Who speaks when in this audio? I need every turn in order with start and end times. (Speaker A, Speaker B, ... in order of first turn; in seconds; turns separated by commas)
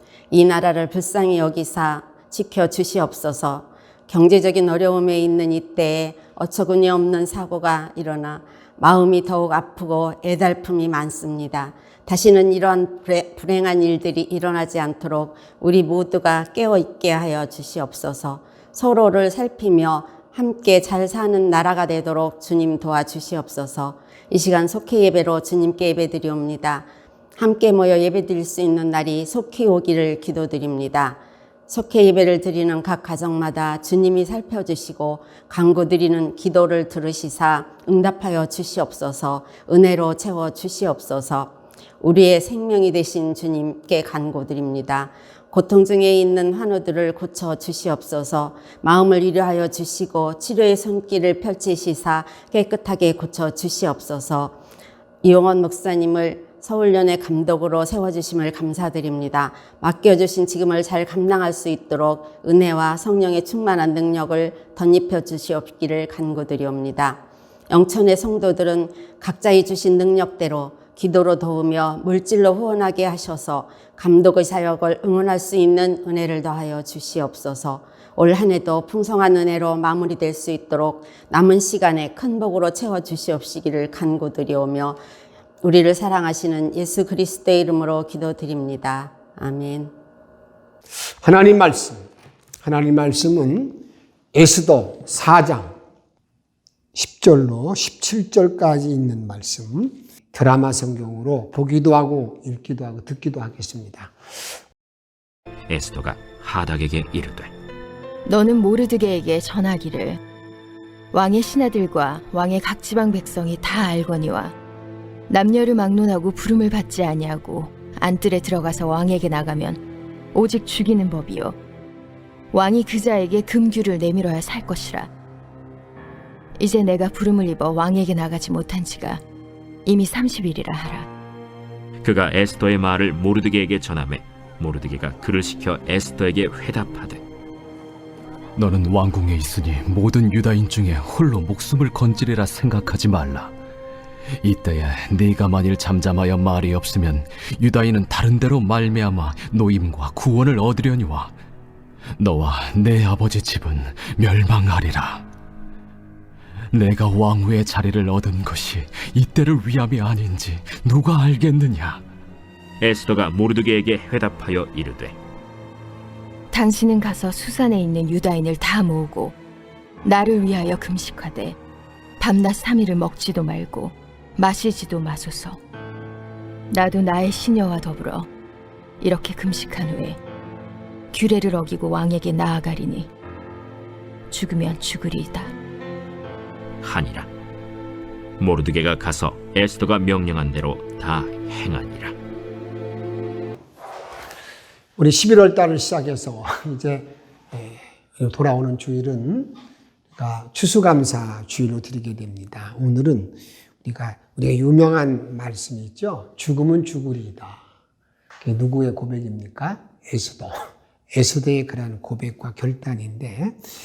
Speaker A: 0.3-54.5, Speaker A: 55.2-85.0, Speaker A: 85.6-89.9, Speaker B: 91.2-92.1, Speaker B: 92.6-95.8, Speaker B: 96.9-104.1, Speaker C: 105.7-107.5, Speaker D: 108.2-110.2, Speaker D: 111.1-114.5, Speaker D: 115.3-119.8, Speaker D: 120.3-121.6, Speaker D: 122.5-125.1, Speaker D: 126.6-129.2, Speaker D: 129.8-131.1, Speaker C: 132.0-137.2, Speaker E: 138.6-143.5, Speaker E: 144.4-151.3, Speaker E: 152.2-155.2, Speaker E: 156.7-162.0, Speaker C: 162.8-165.2, Speaker D: 166.5-169.3, Speaker D: 170.0-171.6, Speaker D: 172.2-175.6, Speaker D: 176.7-178.3, Speaker D: 179.0-180.2, Speaker D: 181.1-183.1, Speaker D: 184.3-185.5, Speaker C: 186.8-187.3, Speaker C: 188.4-192.2, Speaker B: 195.0-199.5, Speaker B: 200.1-207.6, Speaker B: 208.4-213.6